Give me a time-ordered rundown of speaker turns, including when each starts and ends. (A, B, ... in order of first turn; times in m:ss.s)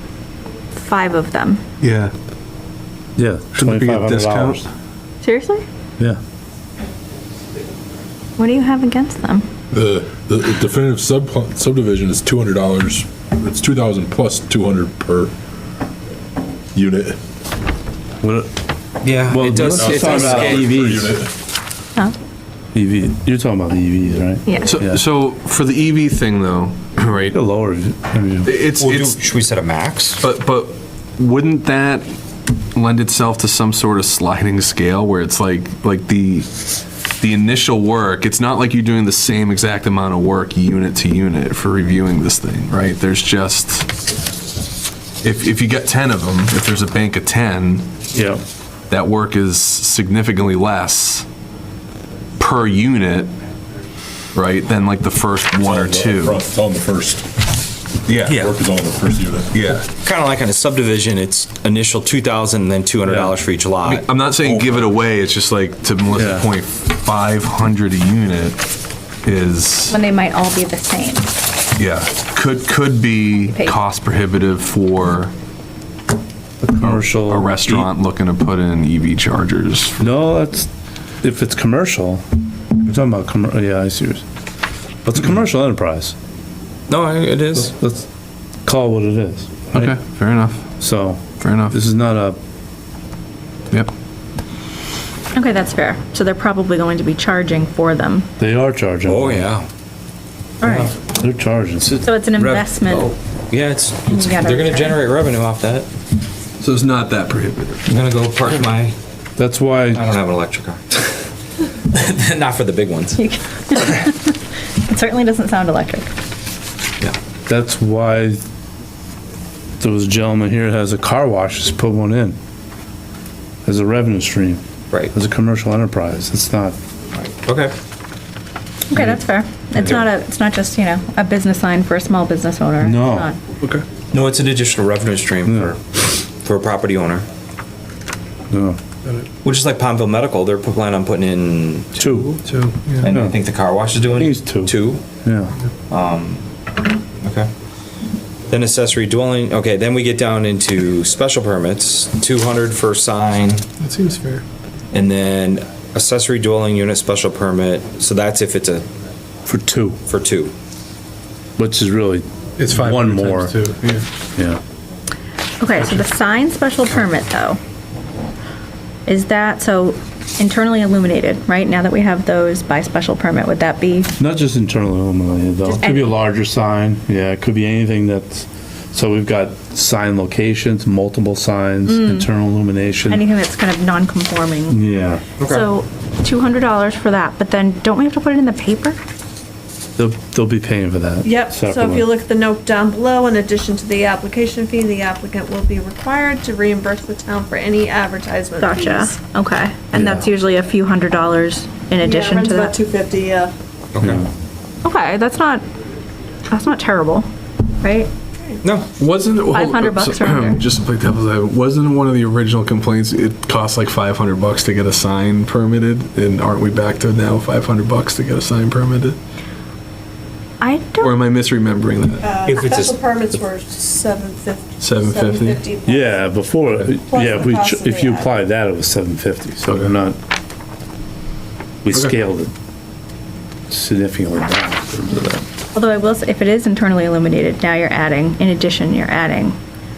0:00.7-0:01.6 A
0:01.8-0:02.1 B
0:03.2-0:04.7 C
0:03.5-0:04.6 B
0:05.2-0:05.6 A
0:08.4-0:09.5 A
0:09.7-0:15.3 D
0:16.7-0:17.2 D
0:18.2-0:18.5 C
0:19.0-0:20.8 E
0:19.2-0:21.2 C
0:19.7-0:21.3 D
0:22.7-0:25.0 C
0:24.6-0:27.4 B
0:27.3-0:28.5 C
0:28.4-0:29.2 B
0:28.8-0:30.2 E
0:30.2-0:32.1 B
0:32.8-0:36.5 B
0:37.2-0:43.9 B
0:45.2-0:47.9 B
0:48.1-0:48.4 C
0:48.9-0:51.3 B
0:52.4-0:53.3 B
0:54.3-0:56.4 B
0:55.6-0:57.3 D
0:58.1-0:59.5 D
0:58.3-0:58.6 E
0:59.6-0:59.8 B
0:59.7-1:04.1 E
1:03.8-1:08.6 B
1:04.4-1:04.9 D
1:06.1-1:06.5 C
1:09.2-1:09.9 B
1:09.9-1:11.3 A
1:11.8-1:15.3 B
1:13.5-1:13.7 A
1:16.6-1:17.9 C
1:16.8-1:20.0 B
1:20.0-1:20.7 C
1:21.2-1:22.2 C
1:22.8-1:24.2 C
1:25.0-1:26.1 C
1:26.9-1:27.7 E
1:27.6-1:28.1 C
1:28.6-1:30.0 C
1:29.7-1:30.6 B
1:30.8-1:32.4 C
1:31.4-1:31.8 B
1:35.3-1:38.3 A
1:38.4-1:39.5 C
1:39.1-1:39.7 E
1:40.6-1:40.9 E
1:40.6-1:40.9 A
1:41.1-1:42.0 C
1:42.0-1:43.1 A
1:42.4-1:45.9 E
1:44.1-1:45.0 A
1:46.6-1:47.8 B
1:47.9-1:49.0 E
1:49.4-1:50.1 C
1:49.9-1:51.0 E
1:51.9-1:53.2 E
1:53.2-1:56.1 A
1:57.5-1:58.4 C
1:59.8-2:02.4 C
2:03.6-2:04.6 C
2:05.1-2:06.8 C
2:07.2-2:07.8 E
2:08.9-2:13.4 A
2:08.9-2:09.2 C
2:12.8-2:13.3 C
2:14.1-2:15.8 E
2:15.4-2:15.8 C
2:16.4-2:17.3 E
2:18.5-2:18.8 C
2:19.4-2:22.4 E
2:22.0-2:22.3 C
2:22.5-2:23.1 F
2:23.0-2:25.0 E
2:23.1-2:23.4 C
2:24.1-2:25.5 C
2:25.9-2:26.4 E
2:27.2-2:27.5 E
2:28.5-2:33.6 E
2:33.8-2:34.4 F
2:34.9-2:38.9 E
2:39.5-2:40.0 C
2:40.1-2:40.5 E
2:41.6-2:43.6 C
2:42.7-2:44.0 F
2:44.4-2:44.6 C
2:45.6-2:47.6 A
2:49.1-2:54.1 A
2:54.2-3:03.2 C
2:55.8-2:56.2 A
3:01.9-3:02.3 A
3:03.1-3:04.8 A
3:04.7-3:05.2 C
3:05.4-3:05.7 E
3:05.4-3:09.0 A
3:10.0-3:12.1 C
3:11.2-3:19.2 G
3:18.6-3:22.8 A
3:19.9-3:20.2 C
3:22.0-3:23.5 G
3:23.9-3:24.2 E
3:24.0-3:24.3 C
3:24.8-3:25.6 A
3:26.5-3:27.3 A
3:27.8-3:28.1 A
3:28.6-3:28.9 E
3:29.0-3:39.2 B
3:29.5-3:30.6 A
3:40.6-3:41.2 A
3:41.0-3:42.3 B
3:42.2-3:46.3 G
3:42.5-3:43.0 E
3:44.8-3:45.6 B
3:45.9-3:50.2 C
3:47.1-3:48.3 G
3:51.8-3:52.5 C
3:53.7-3:55.4 C
3:55.8-3:59.6 A